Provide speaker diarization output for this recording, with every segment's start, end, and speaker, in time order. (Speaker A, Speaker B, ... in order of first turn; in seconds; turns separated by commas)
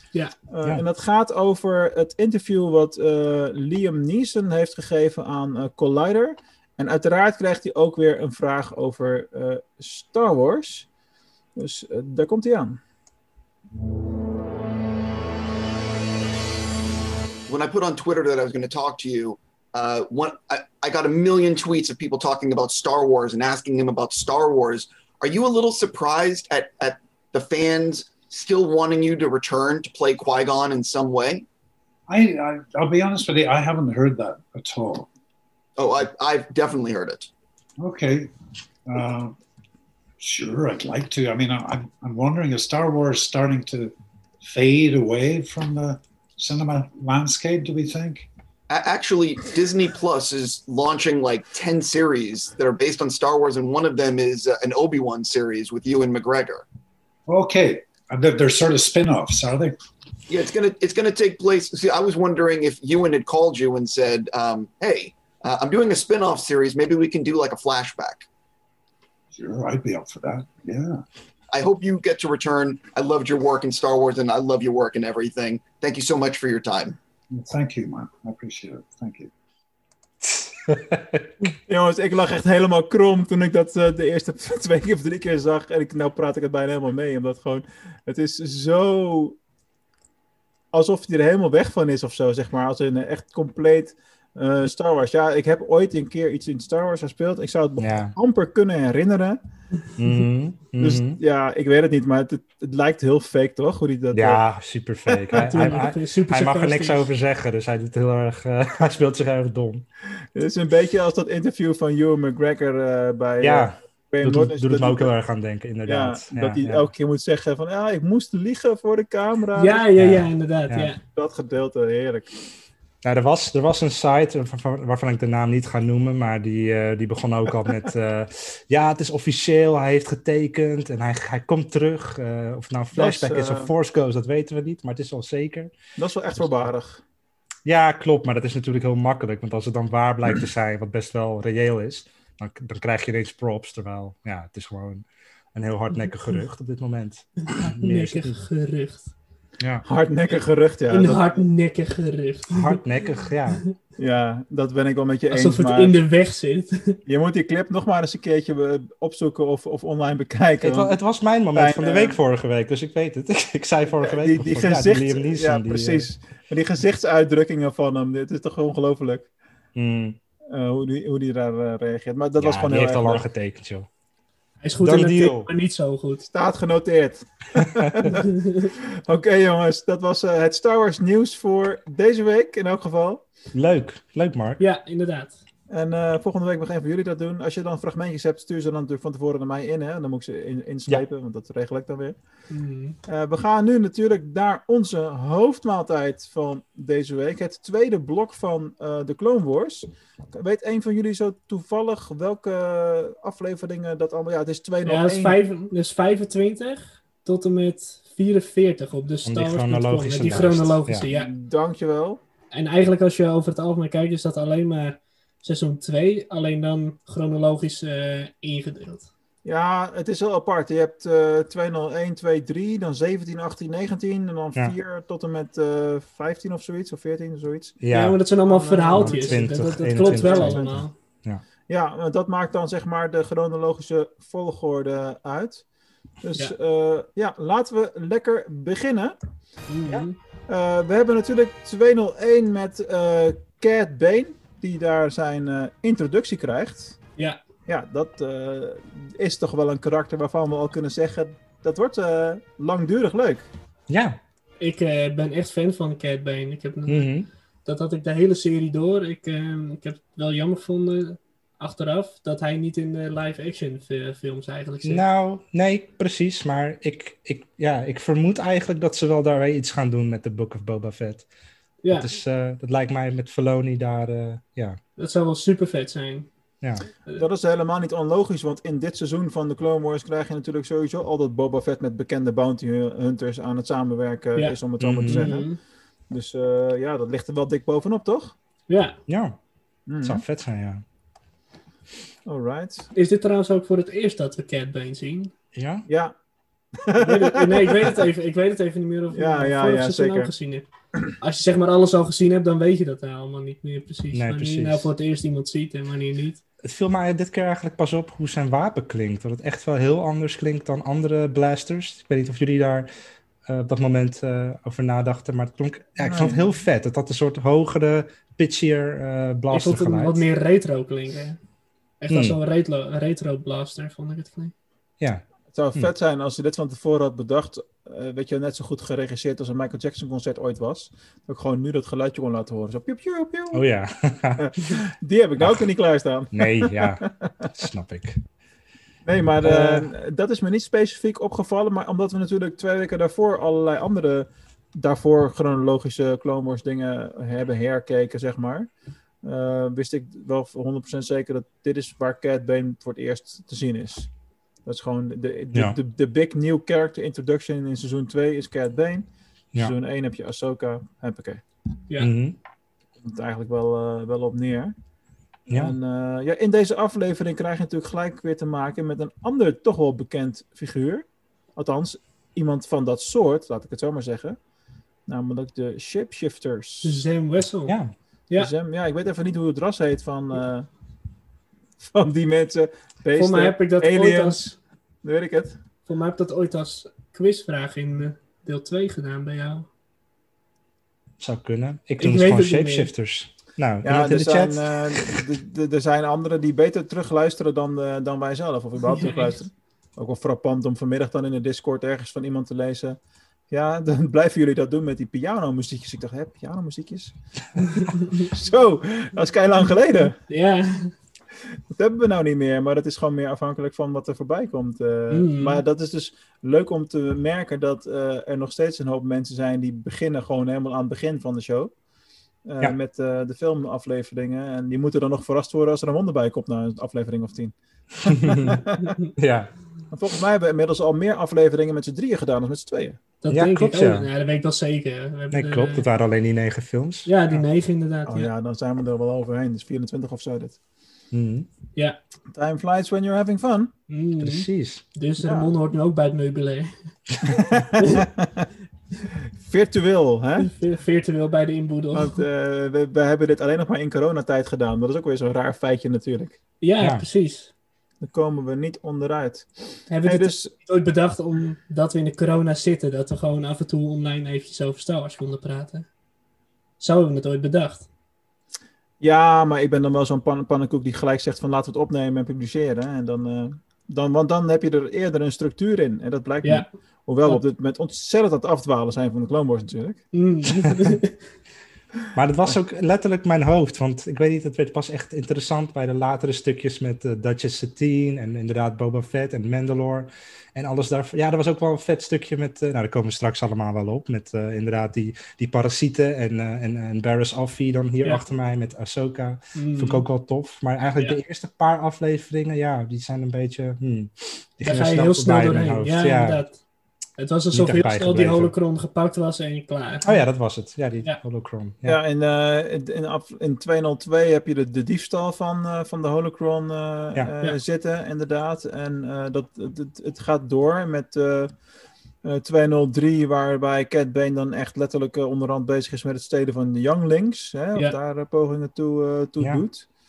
Speaker A: 0.5-10.9, Speaker A: 11.6-12.8, Speaker B: 17.5-31.5, Speaker C: 32.1-35.1, Speaker B: 35.8-37.3, Speaker C: 37.8-38.3, Speaker C: 38.9-39.4, Speaker C: 40.2-48.3, Speaker B: 48.7-56.6, Speaker C: 57.3-59.8, Speaker B: 60.3-68.3, Speaker C: 69.3-71.0, Speaker B: 71.5-77.0, Speaker C: 77.3-79.3, Speaker D: 80.2-81.3, Speaker A: 81.7-89.4, Speaker A: 90.7-99.4, Speaker D: 97.8-98.1, Speaker D: 100.0-101.2, Speaker A: 100.8-104.4, Speaker D: 104.1-109.9, Speaker A: 105.1-105.8, Speaker E: 105.4-107.1, Speaker A: 110.3-115.1, Speaker D: 113.4-116.9, Speaker A: 115.8-119.8, Speaker E: 119.6-121.0, Speaker D: 120.0-120.9, Speaker A: 121.1-122.3, Speaker D: 123.0-135.7, Speaker A: 132.9-133.7, Speaker A: 136.0-137.0, Speaker D: 137.6-148.4, Speaker E: 147.5-149.1, Speaker D: 149.6-149.9, Speaker A: 149.8-151.4, Speaker E: 150.9-152.8, Speaker D: 152.5-153.6, Speaker A: 154.0-156.0, Speaker E: 155.3-157.0, Speaker A: 157.1-160.9, Speaker D: 160.6-166.1, Speaker A: 161.6-162.2, Speaker A: 163.9-169.3, Speaker D: 169.8-170.2, Speaker A: 170.5-173.2, Speaker D: 172.4-173.9, Speaker E: 174.6-176.3, Speaker D: 174.8-175.5, Speaker A: 176.3-178.3, Speaker D: 177.6-178.1, Speaker E: 178.1-178.7, Speaker A: 179.1-183.2, Speaker D: 183.5-184.6, Speaker E: 184.6-185.4, Speaker A: 185.7-192.2, Speaker E: 192.5-193.0, Speaker A: 193.1-205.4, Speaker E: 204.8-211.3, Speaker D: 209.2-211.1, Speaker A: 211.1-212.2, Speaker E: 212.5-219.1, Speaker A: 219.4-227.8, Speaker D: 227.8-228.2, Speaker E: 227.9-230.9, Speaker A: 228.5-230.9, Speaker D: 228.9-231.4, Speaker A: 231.7-235.6, Speaker A: 236.2-239.2, Speaker E: 239.7-240.2, Speaker A: 239.9-247.0, Speaker A: 247.7-253.5, Speaker D: 253.9-254.2, Speaker E: 254.6-257.1, Speaker D: 256.9-257.3, Speaker E: 257.6-265.0, Speaker D: 264.8-271.3, Speaker E: 271.8-272.1, Speaker D: 271.9-274.8, Speaker E: 275.0-276.3, Speaker A: 277.2-285.5, Speaker E: 284.4-285.6, Speaker D: 284.8-285.3, Speaker A: 286.1-288.4, Speaker E: 288.7-289.0, Speaker D: 289.1-289.4, Speaker A: 289.9-290.2, Speaker D: 290.0-290.8, Speaker A: 292.3-292.9, Speaker E: 292.9-295.3, Speaker D: 295.6-295.9, Speaker A: 295.9-296.1, Speaker A: 296.8-297.7, Speaker E: 297.0-300.6, Speaker A: 299.1-300.3, Speaker E: 301.2-306.4, Speaker D: 304.1-304.9, Speaker D: 306.6-312.9, Speaker D: 313.5-320.2, Speaker A: 316.0-316.5, Speaker E: 319.5-321.4, Speaker E: 322.0-324.5, Speaker D: 322.1-322.4, Speaker A: 325.5-333.6, Speaker D: 333.5-334.5, Speaker A: 334.4-337.5, Speaker D: 335.4-335.7, Speaker D: 336.3-338.2, Speaker A: 339.1-348.7, Speaker D: 339.4-339.9, Speaker A: 349.2-354.1, Speaker A: 354.6-361.4, Speaker D: 362.0-362.4, Speaker A: 363.0-364.8, Speaker D: 365.5-365.8, Speaker A: 365.5-374.4, Speaker A: 375.1-377.0, Speaker E: 376.8-377.8, Speaker D: 377.7-377.9, Speaker A: 378.4-380.7, Speaker A: 381.9-384.5, Speaker E: 383.1-384.6, Speaker A: 385.0-385.6, Speaker E: 385.9-389.7, Speaker D: 391.2-395.2, Speaker E: 392.0-392.9, Speaker A: 393.8-403.0, Speaker E: 398.9-399.4, Speaker A: 403.5-407.1, Speaker E: 407.8-408.3, Speaker A: 408.2-410.1, Speaker E: 410.3-410.9, Speaker A: 411.7-421.7, Speaker E: 415.1-415.6, Speaker A: 422.5-428.9, Speaker D: 428.0-428.6, Speaker D: 429.2-429.5, Speaker A: 429.9-433.0, Speaker E: 433.2-435.9, Speaker D: 433.3-434.1, Speaker D: 435.3-437.1, Speaker E: 437.1-438.3, Speaker A: 438.1-440.6, Speaker D: 441.1-441.5, Speaker A: 442.3-443.7, Speaker E: 443.9-446.7, Speaker D: 444.2-444.8, Speaker A: 445.2-445.5, Speaker A: 447.4-448.5, Speaker A: 449.4-450.5, Speaker E: 450.4-452.2, Speaker A: 451.9-456.4, Speaker E: 456.6-457.5, Speaker D: 456.8-457.0, Speaker A: 458.0-460.5, Speaker E: 459.9-465.9, Speaker E: 466.8-467.9, Speaker A: 469.0-480.0, Speaker E: 480.1-481.1, Speaker D: 482.1-506.4, Speaker E: 499.6-500.0, Speaker E: 504.6-506.6, Speaker E: 507.2-510.2, Speaker D: 507.5-508.5, Speaker D: 510.1-512.0, Speaker A: 511.9-521.5, Speaker A: 522.2-529.9